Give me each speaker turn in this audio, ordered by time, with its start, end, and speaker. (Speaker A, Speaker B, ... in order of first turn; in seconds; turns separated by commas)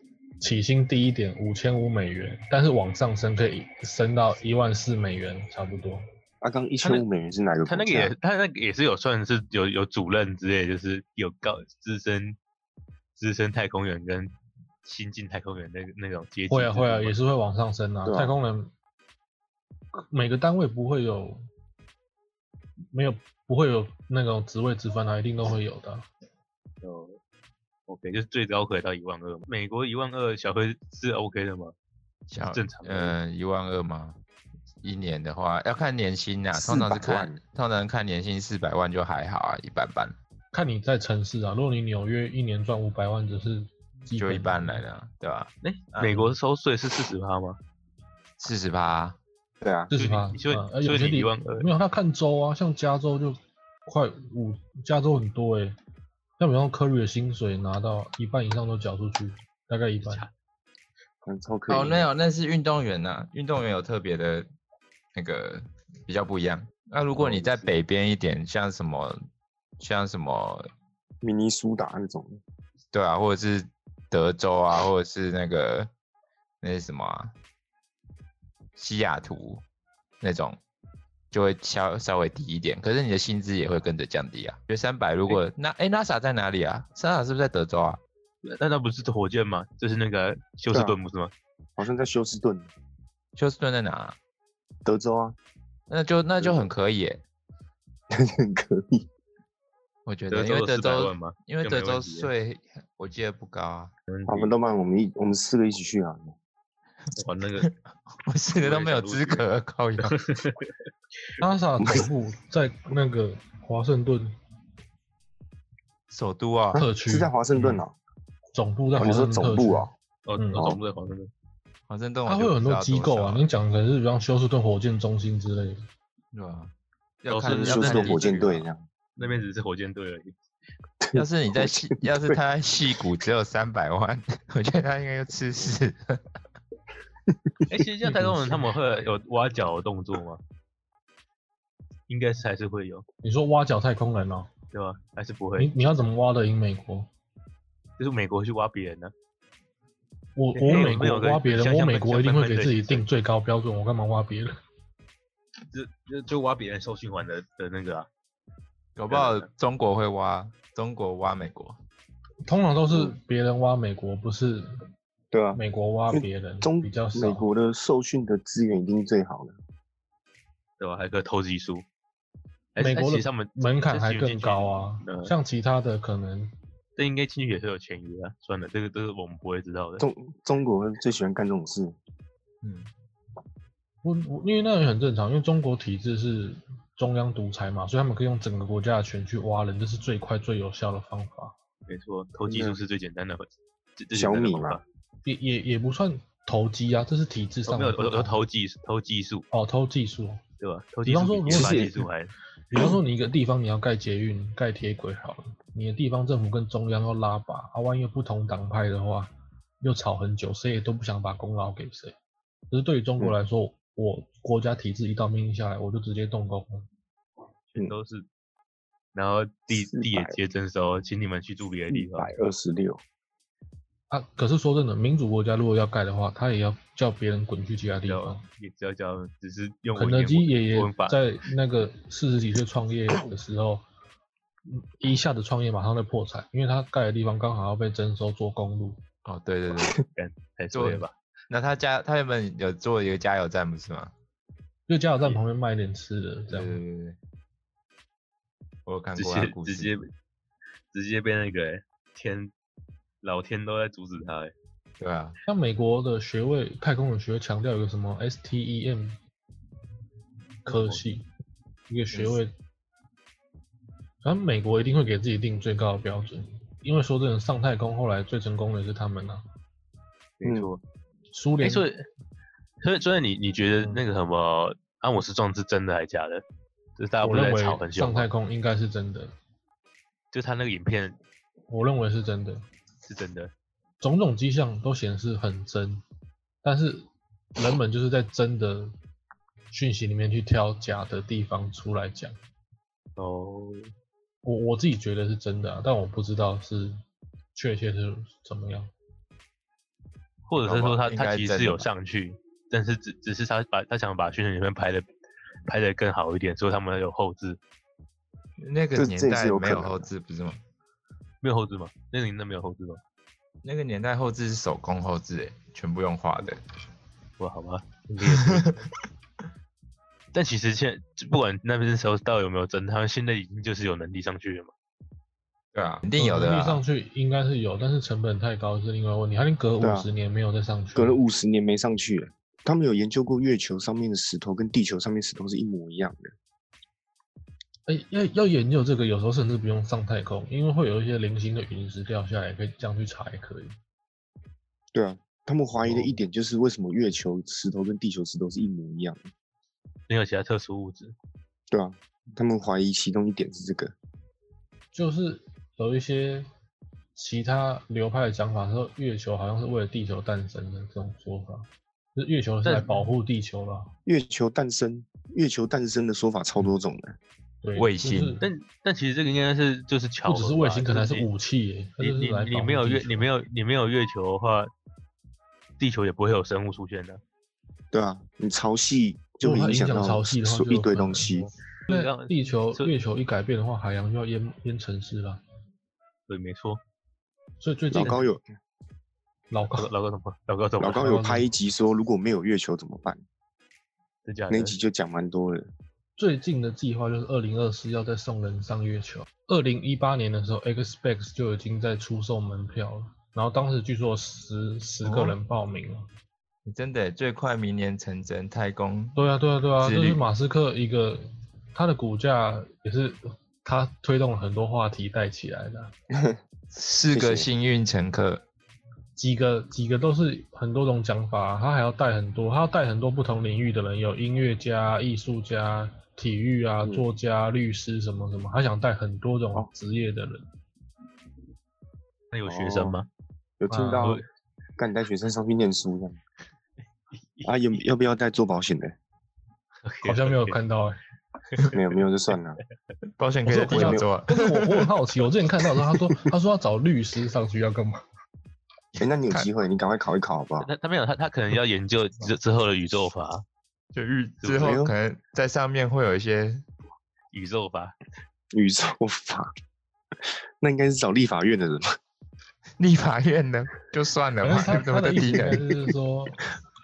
Speaker A: 0.4-6.0, Speaker B: 6.4-8.1, Speaker C: 7.7-12.4, Speaker C: 13.2-17.1, Speaker A: 16.5-18.7, Speaker B: 18.1-18.4, Speaker A: 19.9-21.4, Speaker A: 22.9-26.1, Speaker C: 26.8-27.2, Speaker C: 27.9-31.7, Speaker D: 32.3-34.1, Speaker C: 32.4-33.2, Speaker D: 34.8-40.1, Speaker B: 36.5-37.4, Speaker A: 40.5-44.8, Speaker D: 44.1-46.3, Speaker C: 45.6-47.6, Speaker D: 48.4-49.2, Speaker B: 49.6-49.9, Speaker A: 49.9-55.8, Speaker C: 49.9-51.7, Speaker A: 56.4-60.2, Speaker C: 60.0-60.3, Speaker B: 61.2-62.1, Speaker D: 61.7-64.5, Speaker D: 65.1-69.2, Speaker C: 67.2-67.7, Speaker D: 69.8-70.7, Speaker B: 71.2-72.4, Speaker D: 72.9-75.9, Speaker D: 76.6-77.3, Speaker D: 78.8-79.6, Speaker D: 80.2-80.6, Speaker D: 81.3-88.0, Speaker C: 88.4-91.3, Speaker B: 90.7-91.0, Speaker B: 91.8-92.7, Speaker D: 93.3-94.2, Speaker B: 94.8-95.3, Speaker D: 95.9-97.2, Speaker B: 96.4-96.7, Speaker B: 98.1-99.1, Speaker D: 100.0-103.9, Speaker C: 100.3-102.3, Speaker C: 104.1-104.5, Speaker B: 104.3-106.3, Speaker C: 107.2-107.7, Speaker D: 107.6-110.1, Speaker C: 108.6-109.4, Speaker C: 110.0-110.7, Speaker A: 111.4-114.3, Speaker B: 111.8-112.1, Speaker D: 116.1-116.9, Speaker B: 116.7-117.9, Speaker A: 116.7-117.8, Speaker A: 118.5-120.8, Speaker B: 119.0-119.9, Speaker C: 120.2-121.3, Speaker D: 121.9-123.5, Speaker A: 122.2-125.8, Speaker D: 126.3-128.7, Speaker C: 127.3-128.4, Speaker B: 127.5-128.8, Speaker C: 129.2-130.4, Speaker B: 131.0-132.4, Speaker D: 131.1-136.2, Speaker C: 137.7-140.4, Speaker A: 138.0-138.7, Speaker C: 142.1-143.0, Speaker A: 143.2-144.5, Speaker C: 144.7-145.7, Speaker A: 145.6-147.1, Speaker C: 148.0-149.1, Speaker A: 150.3-154.5, Speaker C: 150.5-153.1, Speaker C: 155.7-158.1, Speaker D: 159.0-161.8, Speaker C: 159.1-159.5, Speaker A: 162.4-164.8, Speaker B: 165.3-169.6, Speaker A: 165.5-167.4, Speaker C: 170.8-171.8, Speaker C: 172.7-175.3, Speaker A: 172.8-176.5, Speaker C: 177.0-180.0, Speaker B: 180.0-181.9, Speaker D: 182.6-182.9, Speaker A: 184.0-191.5, Speaker C: 191.9-194.8, Speaker B: 192.5-192.8, Speaker B: 194.1-194.8, Speaker A: 195.2-198.4, Speaker C: 197.7-199.4, Speaker A: 199.5-200.4, Speaker C: 200.6-202.3, Speaker A: 201.1-201.9, Speaker B: 201.5-202.0, Speaker A: 202.7-212.2, Speaker A: 212.7-216.9, Speaker C: 217.7-218.3, Speaker C: 219.1-222.3, Speaker B: 219.7-220.4, Speaker B: 221.9-223.0, Speaker A: 224.1-228.4, Speaker C: 228.1-231.2, Speaker A: 229.9-233.8, Speaker A: 234.7-239.0, Speaker D: 239.2-240.0, Speaker C: 240.1-241.1, Speaker D: 240.7-244.1, Speaker A: 244.9-246.8, Speaker D: 246.5-247.2, Speaker D: 248.8-249.9, Speaker C: 249.2-250.1, Speaker C: 250.9-252.5, Speaker C: 253.2-254.5, Speaker D: 255.0-255.4, Speaker A: 255.4-259.2, Speaker A: 260.6-261.3, Speaker C: 260.7-261.0, Speaker A: 261.9-262.5, Speaker A: 264.2-269.4, Speaker C: 270.4-270.8, Speaker B: 270.4-270.8, Speaker A: 271.3-271.9, Speaker C: 271.6-272.0, Speaker C: 272.8-276.4, Speaker C: 277.0-278.3, Speaker A: 277.2-279.3, Speaker C: 280.3-281.2, Speaker A: 281.7-282.6, Speaker C: 283.0-283.5, Speaker A: 284.0-286.0, Speaker A: 286.6-288.9, Speaker A: 289.7-292.4, Speaker C: 293.2-293.9, Speaker A: 294.4-296.9, Speaker A: 297.5-298.9, Speaker C: 300.5-305.1, Speaker D: 300.6-301.9, Speaker C: 305.7-307.6, Speaker D: 308.6-310.6, Speaker B: 308.9-310.1, Speaker C: 311.4-313.0, Speaker D: 313.6-316.6, Speaker C: 317.4-318.9, Speaker D: 318.3-318.7, Speaker C: 320.3-324.7, Speaker D: 325.7-326.8, Speaker A: 326.2-331.2, Speaker B: 329.8-330.1, Speaker B: 330.9-336.3, Speaker A: 337.9-343.8, Speaker B: 344.9-349.3, Speaker C: 345.8-346.2, Speaker C: 350.1-351.1, Speaker B: 351.7-353.9, Speaker A: 354.9-356.5, Speaker A: 357.1-363.9, Speaker C: 362.6-363.1, Speaker B: 364.0-367.2, Speaker A: 367.6-368.4, Speaker D: 367.8-368.4, Speaker C: 368.4-371.3, Speaker A: 370.2-373.2, Speaker C: 372.0-374.7, Speaker C: 375.8-377.2, Speaker B: 377.9-381.5, Speaker A: 379.4-385.4, Speaker C: 381.9-382.9, Speaker C: 386.3-386.8, Speaker A: 387.6-388.2, Speaker B: 387.9-388.4, Speaker A: 389.5-389.9, Speaker C: 389.7-391.2, Speaker B: 390.8-393.2, Speaker A: 390.9-391.5, Speaker C: 394.2-394.8, Speaker B: 394.5-395.7, Speaker A: 396.2-406.1, Speaker D: 405.0-405.4, Speaker D: 406.6-409.2, Speaker A: 409.1-415.9, Speaker D: 409.8-410.2, Speaker D: 416.7-418.4, Speaker B: 417.1-417.5, Speaker A: 419.2-430.4, Speaker C: 432.3-433.1, Speaker B: 432.5-433.0, Speaker B: 433.6-434.2, Speaker A: 433.7-434.1, Speaker B: 434.8-436.2, Speaker B: 437.4-438.9, Speaker C: 439.8-440.6, Speaker A: 440.0-441.0, Speaker B: 441.7-442.6, Speaker D: 443.2-444.9, Speaker A: 443.5-448.0, Speaker B: 443.5-444.1, Speaker D: 445.8-446.2, Speaker B: 449.0-450.7, Speaker C: 450.6-453.4, Speaker D: 453.9-456.6, Speaker C: 454.4-454.7, Speaker B: 454.6-454.9, Speaker C: 457.3-457.9, Speaker B: 458.5-459.5, Speaker B: 460.6-462.0, Speaker D: 462.8-465.6, Speaker A: 464.4-466.4